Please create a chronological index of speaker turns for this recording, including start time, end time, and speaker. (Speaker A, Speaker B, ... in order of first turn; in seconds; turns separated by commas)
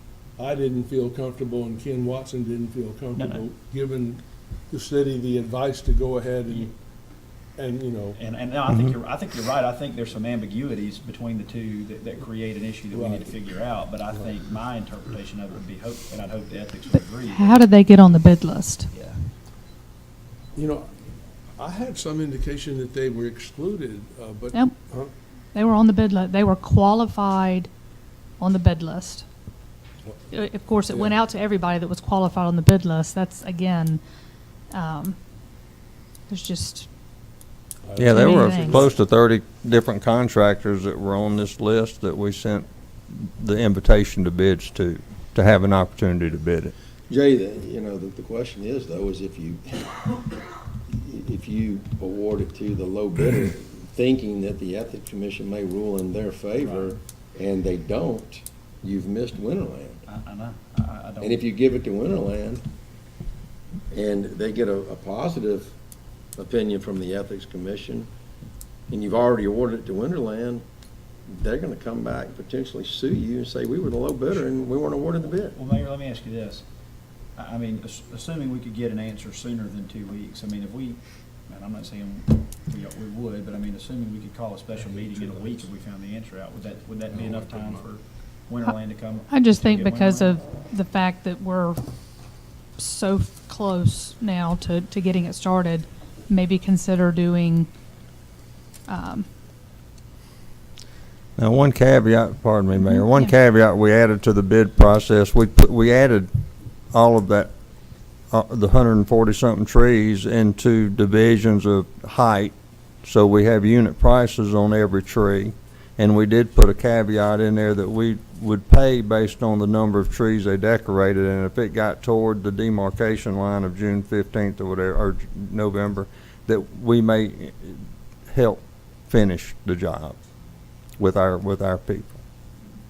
Speaker A: 0.4-6.7, Speaker B: 3.1-3.5, Speaker A: 7.5-8.2, Speaker B: 8.2-17.7, Speaker A: 12.9-13.3, Speaker C: 17.3-18.9, Speaker B: 18.9-19.2, Speaker A: 20.6-20.9, Speaker A: 21.6-25.1, Speaker C: 25.5-27.7, Speaker C: 28.4-29.3, Speaker C: 30.3-34.0, Speaker A: 30.9-31.2, Speaker C: 34.7-35.7, Speaker C: 36.3-36.9, Speaker A: 37.8-39.0, Speaker D: 38.0-46.7, Speaker C: 38.1-38.9, Speaker E: 47.1-50.2, Speaker E: 50.9-60.0, Speaker B: 56.6-57.0, Speaker B: 60.1-61.5, Speaker E: 61.2-62.6, Speaker E: 63.9-65.7, Speaker E: 66.4-68.1, Speaker E: 68.9-70.6, Speaker E: 71.3-75.6, Speaker B: 75.5-76.6, Speaker B: 77.4-90.4, Speaker A: 84.9-85.6, Speaker A: 87.1-87.9, Speaker C: 89.3-91.8, Speaker C: 92.8-97.7, Speaker C: 98.9-99.3, Speaker D: 101.4-106.3, Speaker C: 102.7-103.3, Speaker D: 106.9-107.5, Speaker D: 108.3-112.5, Speaker D: 113.0-130.2, Speaker D: 131.0-132.2